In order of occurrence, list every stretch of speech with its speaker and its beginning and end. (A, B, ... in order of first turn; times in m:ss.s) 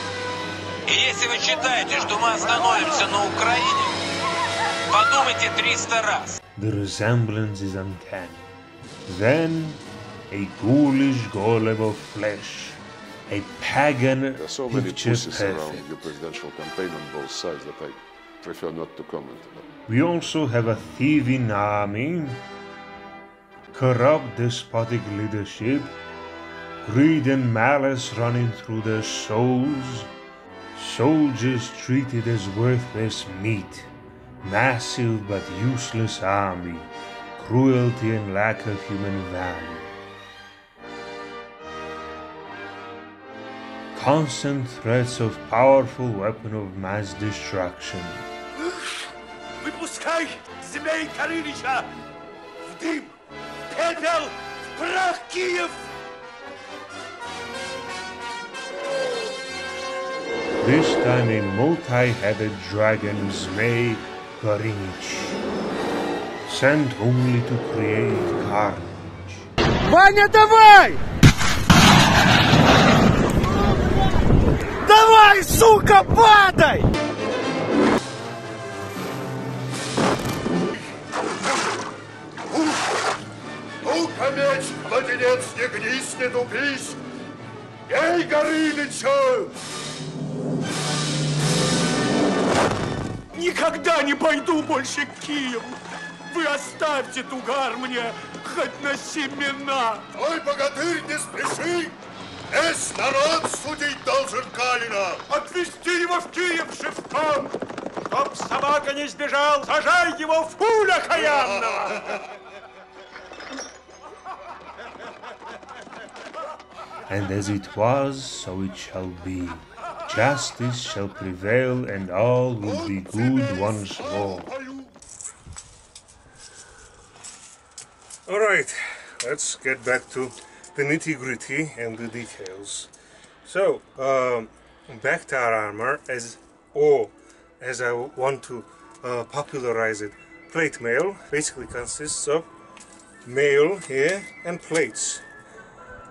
0:00.9-0:03.9 A
0:04.9-0:06.4 A
0:06.6-0:08.5 B
0:09.0-0:16.0 B
0:14.4-0:19.7 C
0:19.9-0:22.4 B
0:23.7-0:26.0 B
0:26.8-0:30.1 B
0:30.7-0:39.9 B
0:43.9-0:48.3 B
0:48.6-0:49.1 D
0:49.6-0:51.9 D
0:52.7-0:53.1 D
0:53.7-0:55.8 D
1:00.6-1:05.4 B
1:06.4-1:09.5 B
1:09.9-1:11.0 D
1:14.8-1:16.9 D
1:23.8-1:27.0 E
1:27.9-1:28.7 D
1:28.0-1:29.5 E
1:33.3-1:35.8 D
1:36.3-1:42.0 D
1:40.2-1:41.8 E
1:42.5-1:45.2 E
1:45.2-1:47.6 D
1:48.1-1:52.0 D
1:57.1-2:04.6 B
2:08.2-2:12.9 F
2:13.4-2:22.5 F
2:23.2-2:25.2 F